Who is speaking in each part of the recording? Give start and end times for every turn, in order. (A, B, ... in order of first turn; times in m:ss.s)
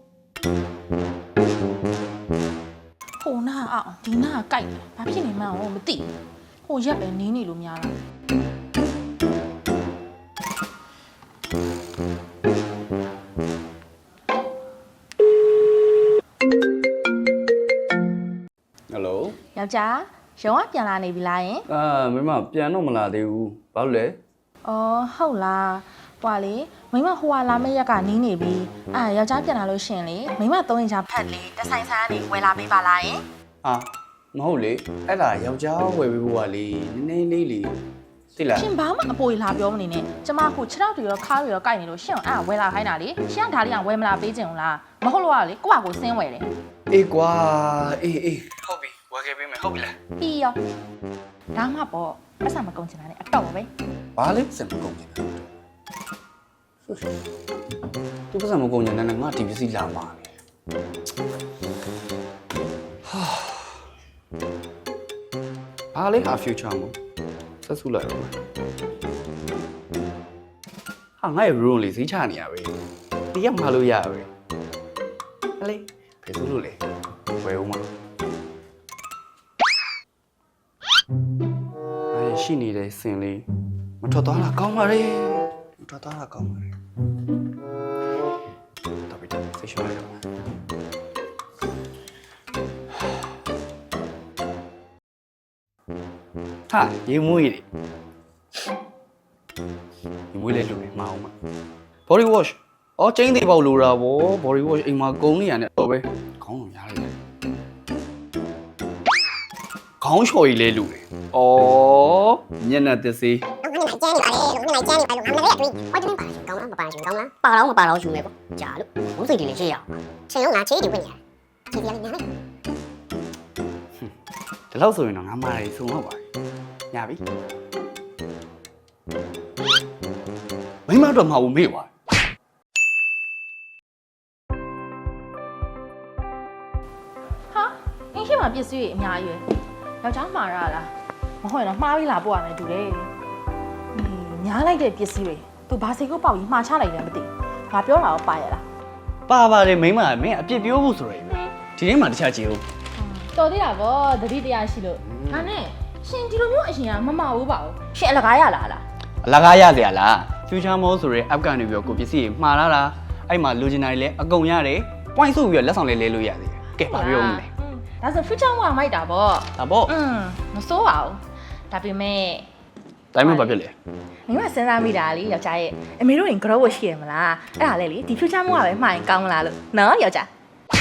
0:03.2-0:06.1 A
0:06.6-0:08.0 A
0:18.9-0:19.4 B
0:19.5-0:21.6 A
0:21.7-0:24.2 B
0:24.6-0:33.2 A
0:33.6-0:37.8 B
0:38.4-0:38.7 B
0:38.5-0:46.5 A
0:46.9-0:50.0 B
0:50.2-0:50.6 A
0:51.5-0:53.7 A
0:54.2-0:55.4 B
0:58.3-1:00.3 B
1:03.0-1:03.8 B
1:05.9-1:07.0 B
1:07.6-1:08.3 B
1:11.2-1:12.8 B
1:13.3-1:14.3 B
1:15.6-1:16.8 B
1:17.4-1:17.9 B
1:22.1-1:23.5 B
1:24.0-1:26.7 B
1:29.1-1:30.2 B
1:36.7-1:37.6 B
1:40.3-1:41.3 B
1:42.1-1:47.1 B
1:50.0-1:53.4 B
1:53.6-2:01.2 C
2:01.7-2:02.2 C
2:04.7-2:06.2 B
2:06.9-2:07.2 B
2:10.9-2:11.9 B
2:17.5-2:19.4 A
2:20.0-2:23.1 A
2:23.9-2:28.6 A
2:29.3-2:32.6 B
2:33.0-2:38.8 A
2:35.1-2:35.5 B
2:39.2-2:47.5 B
2:46.8-2:52.5 A
2:49.6-2:49.9 B
2:53.1-2:53.7 B
2:53.2-2:53.6 A
2:54.3-3:00.3 A